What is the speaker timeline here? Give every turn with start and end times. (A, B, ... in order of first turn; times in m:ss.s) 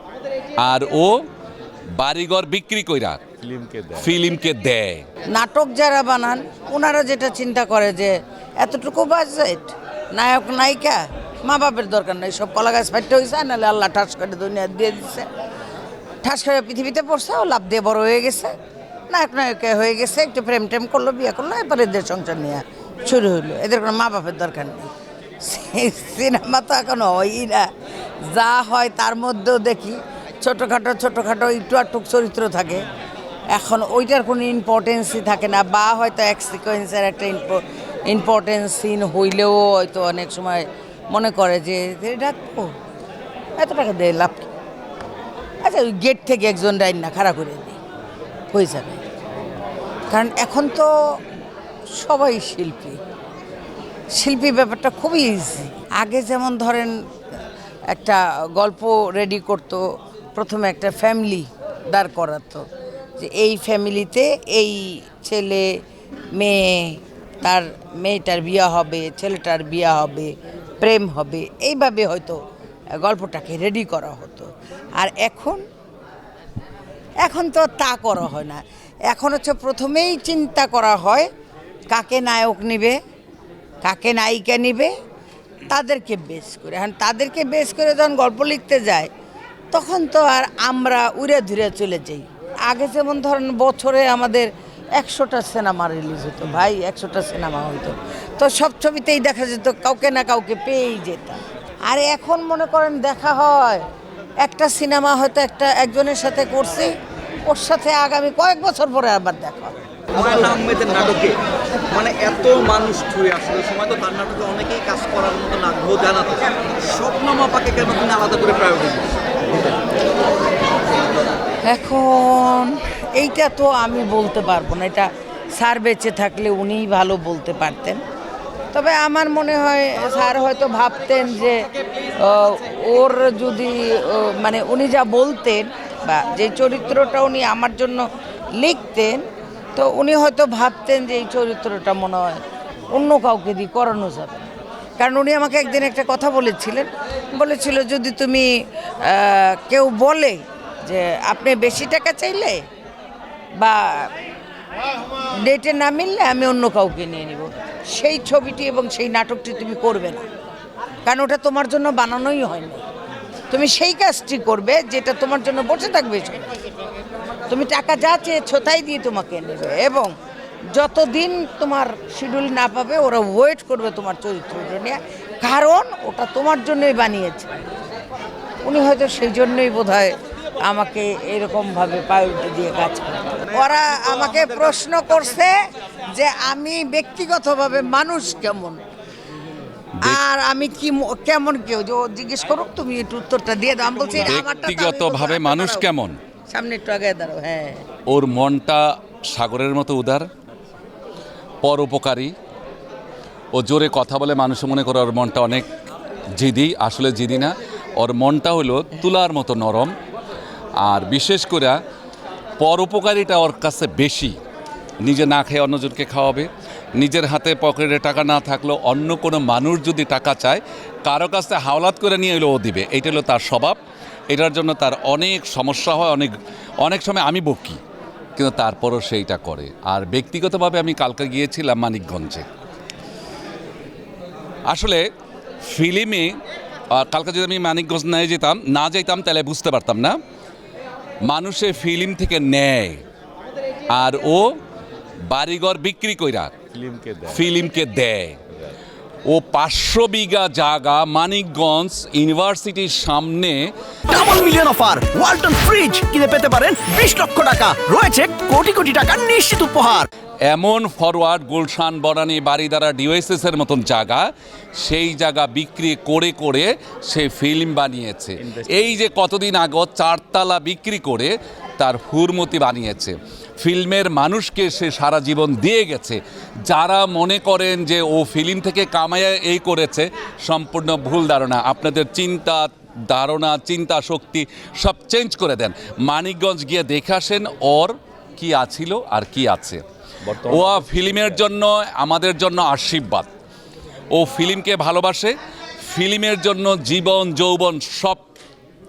0:00.6-0:01.2 A
0:02.0-0:03.3 A
0:03.4-0:04.1 B
0:04.0-0:05.0 A
0:05.3-0:15.3 C
0:16.2-0:18.5 C
0:19.1-0:24.9 C
0:25.4-0:27.7 C
0:28.3-0:32.8 C
0:33.5-0:42.7 C
0:43.6-0:44.5 C
0:45.6-0:47.8 C
0:48.5-0:49.0 C
0:50.1-0:50.9 C
0:51.9-0:53.0 C
0:54.1-0:57.0 C
0:57.9-0:59.8 C
1:00.4-1:02.7 C
1:03.2-1:05.7 C
1:06.4-1:12.4 C
1:13.0-1:15.6 C
1:17.2-1:21.3 C
1:21.9-1:23.0 C
1:23.8-1:24.9 C
1:25.7-1:29.1 C
1:29.7-1:43.8 C
1:44.4-1:46.9 C
1:47.4-1:49.7 C
1:50.1-1:59.7 D
2:01.6-2:08.0 C
2:08.7-2:18.0 C
2:18.6-2:19.2 C
2:19.8-2:24.5 C
2:25.0-2:28.5 C
2:29.0-2:32.6 C
2:33.6-2:34.1 C
2:35.1-2:40.2 C
2:41.0-2:42.8 C
2:43.5-2:46.5 C
2:47.5-2:50.1 C
2:50.7-2:57.6 C
2:58.6-3:05.6 C
3:06.2-3:08.8 C
3:10.0-3:15.9 C
3:14.2-3:16.2 A
3:16.5-3:17.8 C
3:18.1-3:20.3 A
3:21.6-3:22.3 A
3:23.5-3:25.7 A
3:26.4-3:29.9 A
3:30.8-3:31.8 A
3:32.6-3:34.4 A
3:35.0-3:43.8 A
3:44.3-3:47.8 A
3:48.4-3:52.5 A
3:54.7-3:55.0 A
3:55.6-3:56.4 A
3:56.9-4:00.2 A
4:01.2-4:03.0 A
4:03.9-4:04.6 A
4:05.3-4:06.6 A
4:06.7-4:07.5 B
4:07.3-4:08.4 A
4:09.3-4:13.7 A
4:14.1-4:20.1 E
4:20.5-4:53.3 A
4:28.5-4:28.8 B
4:50.3-4:51.4 B
4:54.1-4:58.3 A